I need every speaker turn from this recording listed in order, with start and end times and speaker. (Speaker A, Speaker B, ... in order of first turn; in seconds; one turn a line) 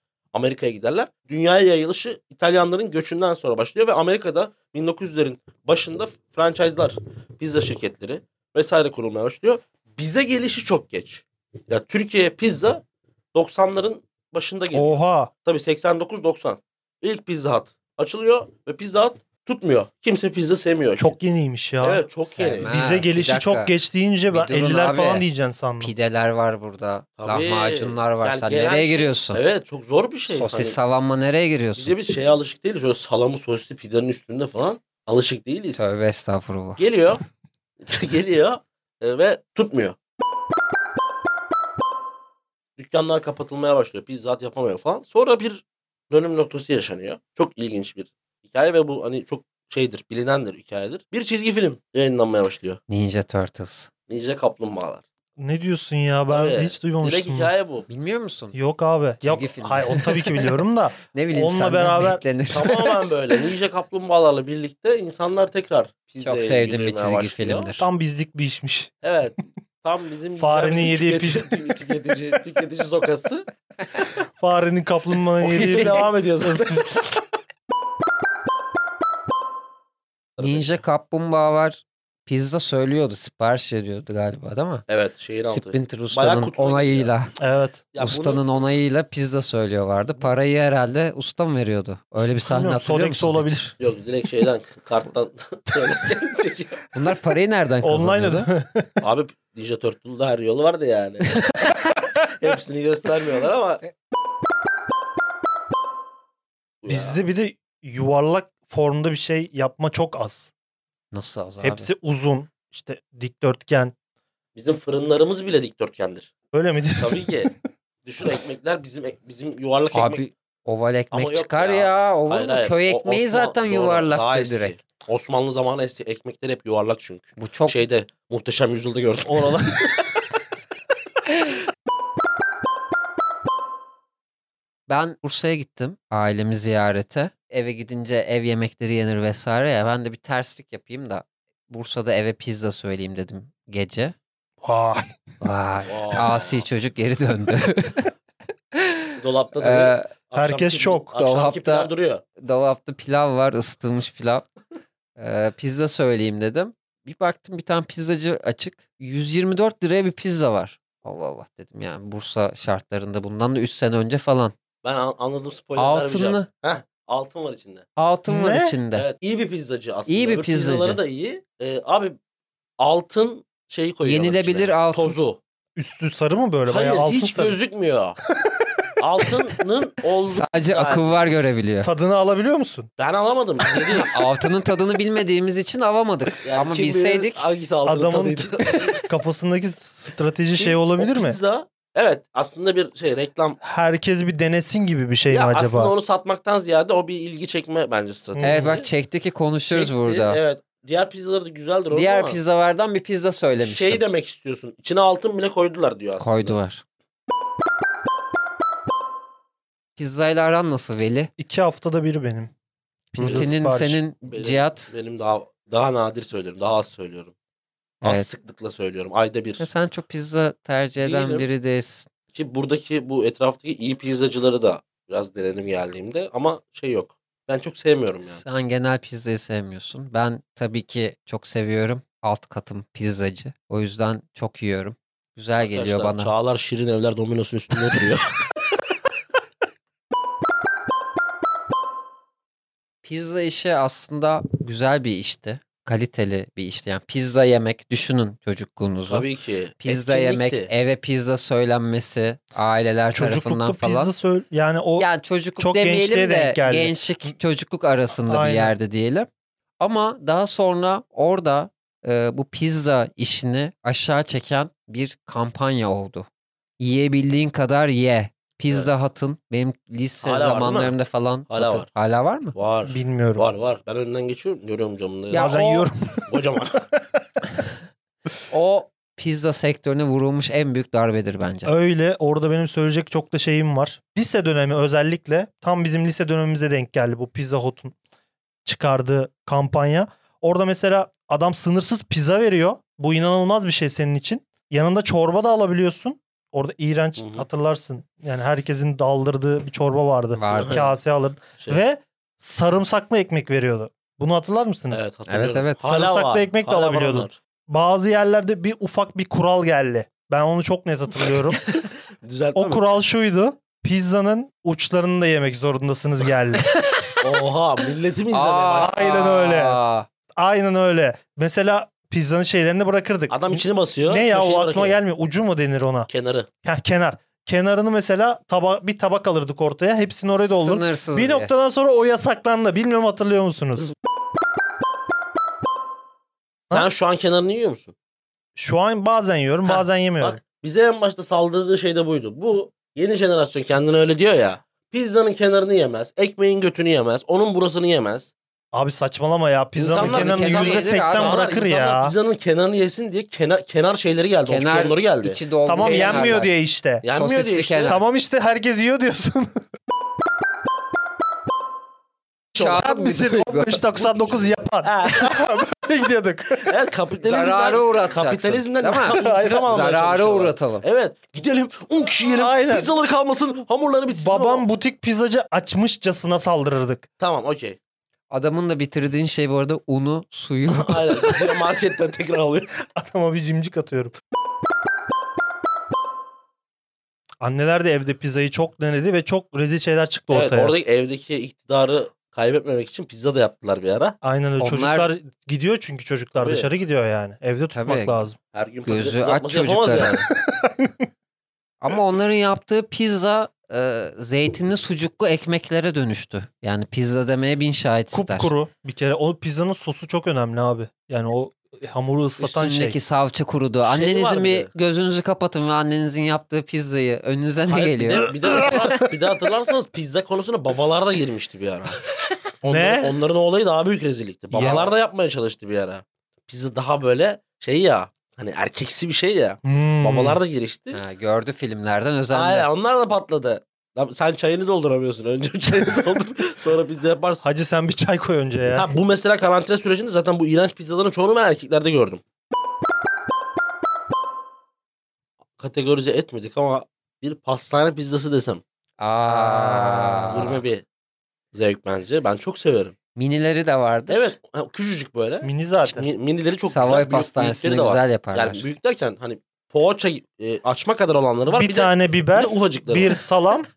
Speaker A: 0.3-12.8
Speaker A: 13.3-21.2
Speaker B: 14.7-15.3
Speaker B: 21.0-22.1
Speaker A: 21.8-22.8
Speaker C: 22.2-23.7
Speaker B: 22.7-25.9
Speaker C: 24.3-25.2
Speaker C: 25.8-29.4
Speaker A: 27.2-30.8
Speaker C: 30.3-31.9
Speaker A: 31.8-35.8
Speaker C: 35.8-36.8
Speaker A: 36.8-37.2
Speaker A: 37.8-40.0
Speaker A: 42.8-52.8
Speaker C: 52.9-53.9
Speaker A: 54.1-55.0
Speaker B: 55.4-57.5
Speaker A: 56.3-57.9
Speaker C: 57.9-58.6
Speaker B: 58.5-62.2
Speaker C: 59.2-60.5
Speaker C: 61.1-63.0
Speaker A: 62.5-67.7
Speaker C: 66.2-67.9
Speaker B: 67.8-68.9
Speaker A: 69.0-73.5
Speaker B: 70.4-71.8
Speaker B: 74.4-76.8
Speaker A: 75.4-77.0
Speaker A: 80.4-80.8
Speaker C: 80.4-84.9
Speaker A: 84.9-87.1
Speaker C: 85.5-87.3
Speaker B: 87.4-87.8
Speaker A: 87.9-88.4
Speaker C: 88.0-93.7
Speaker B: 92.4-93.7
Speaker A: 93.8-96.8
Speaker C: 96.9-98.5
Speaker B: 97.8-99.0
Speaker A: 99.0-101.4
Speaker C: 101.4-101.7
Speaker A: 102.3-103.8
Speaker A: 106.8-107.2
Speaker B: 106.9-110.5
Speaker C: 111.1-111.9
Speaker B: 111.6-113.9
Speaker A: 114.5-116.3
Speaker B: 116.5-117.5
Speaker A: 117.0-117.5
Speaker A: 118.0-120.2
Speaker C: 119.9-124.8
Speaker A: 121.1-130.0
Speaker C: 127.4-127.8
Speaker C: 134.9-144.2
Speaker B: 144.6-145.1
Speaker C: 145.4-148.1
Speaker A: 145.9-146.6
Speaker C: 148.7-150.1
Speaker A: 149.2-152.2
Speaker B: 150.3-151.1
Speaker C: 151.2-154.5
Speaker C: 155.2-164.5
Speaker A: 164.8-167.9
Speaker C: 165.8-166.5
Speaker C: 168.0-169.1
Speaker B: 168.3-168.8
Speaker A: 168.9-172.2
Speaker C: 170.1-171.0
Speaker A: 172.8-175.4
Speaker C: 174.0-175.2
Speaker B: 175.8-177.6
Speaker A: 176.7-178.2
Speaker A: 179.0-181.3
Speaker C: 180.3-181.9
Speaker B: 181.8-182.9
Speaker A: 183.0-184.1
Speaker C: 183.9-187.4
Speaker A: 186.4-189.0
Speaker B: 187.8-191.4
Speaker C: 188.6-189.0
Speaker A: 190.6-193.6
Speaker B: 193.6-195.9
Speaker A: 195.3-198.9
Speaker B: 198.3-198.7
Speaker C: 198.4-200.4
Speaker A: 199.7-202.4
Speaker C: 201.9-204.0
Speaker A: 203.6-206.6
Speaker C: 206.2-206.8
Speaker C: 210.0-211.3
Speaker B: 211.4-212.5
Speaker B: 213.1-214.0
Speaker C: 213.2-214.9
Speaker A: 213.2-213.5
Speaker A: 214.3-217.3
Speaker C: 218.0-218.3
Speaker A: 218.0-219.6
Speaker C: 219.6-222.1
Speaker A: 221.0-221.5
Speaker A: 222.3-228.4
Speaker C: 228.2-236.3
Speaker A: 235.6-238.3
Speaker C: 243.0-249.3
Speaker A: 249.1-250.7
Speaker C: 249.8-254.1
Speaker B: 253.1-257.3
Speaker C: 255.0-259.3
Speaker B: 258.3-258.8
Speaker C: 259.8-266.3
Speaker C: 266.8-272.6
Speaker A: 270.2-271.0
Speaker A: 271.5-271.9
Speaker A: 272.6-275.6
Speaker B: 272.9-273.5
Speaker C: 275.3-275.9
Speaker B: 275.4-276.3
Speaker A: 276.3-276.8
Speaker C: 278.5-281.7
Speaker B: 281.6-287.9
Speaker B: 288.6-305.1
Speaker A: 297.2-297.5
Speaker C: 300.3-300.9
Speaker A: 300.5-300.9
Speaker A: 304.9-307.4
Speaker C: 305.3-305.8
Speaker B: 305.8-311.6
Speaker A: 312.2-312.9
Speaker B: 312.6-316.7
Speaker C: 316.8-317.1
Speaker A: 317.2-318.9
Speaker C: 318.3-320.1
Speaker B: 318.8-319.8
Speaker B: 320.4-326.1
Speaker A: 323.3-325.0
Speaker A: 326.1-326.5
Speaker B: 326.6-333.9
Speaker C: 330.3-331.5
Speaker A: 336.7-337.9
Speaker B: 338.6-340.4
Speaker A: 339.7-348.3
Speaker B: 348.7-352.1
Speaker C: 349.8-351.5
Speaker A: 349.9-356.4
Speaker C: 354.5-356.5
Speaker B: 355.7-357.0
Speaker A: 357.0-358.0
Speaker C: 357.1-358.0
Speaker B: 357.9-359.7
Speaker B: 362.6-366.7
Speaker A: 362.6-362.8
Speaker C: 362.6-364.1
Speaker A: 364.8-365.4
Speaker A: 366.6-374.7
Speaker C: 367.2-370.9
Speaker B: 369.2-369.7
Speaker B: 372.2-372.9
Speaker B: 374.1-377.1
Speaker A: 377.2-377.8
Speaker C: 378.3-381.1
Speaker A: 380.7-382.7
Speaker B: 382.9-384.1
Speaker B: 387.4-390.7
Speaker A: 390.3-394.2
Speaker B: 394.2-398.4
Speaker C: 394.6-395.1
Speaker A: 396.4-396.7
Speaker C: 397.7-398.2
Speaker A: 398.5-400.3
Speaker C: 398.9-400.3
Speaker B: 400.4-401.0
Speaker C: 401.8-408.5
Speaker B: 408.1-413.0
Speaker C: 412.4-418.9
Speaker A: 413.8-414.7
Speaker A: 417.7-422.0
Speaker B: 418.3-419.1
Speaker B: 422.6-423.1
Speaker A: 422.6-431.0
Speaker B: 424.5-424.9
Speaker B: 429.6-430.4
Speaker C: 430.9-432.7
Speaker A: 432.3-437.4
Speaker B: 437.4-439.0
Speaker A: 438.7-442.2
Speaker A: 445.6-448.6
Speaker C: 449.0-450.6
Speaker B: 449.3-450.5
Speaker A: 450.3-450.9
Speaker A: 451.5-452.9
Speaker C: 453.2-454.4
Speaker A: 454.1-463.2
Speaker B: 455.4-456.1
Speaker C: 456.6-458.6
Speaker B: 461.5-463.7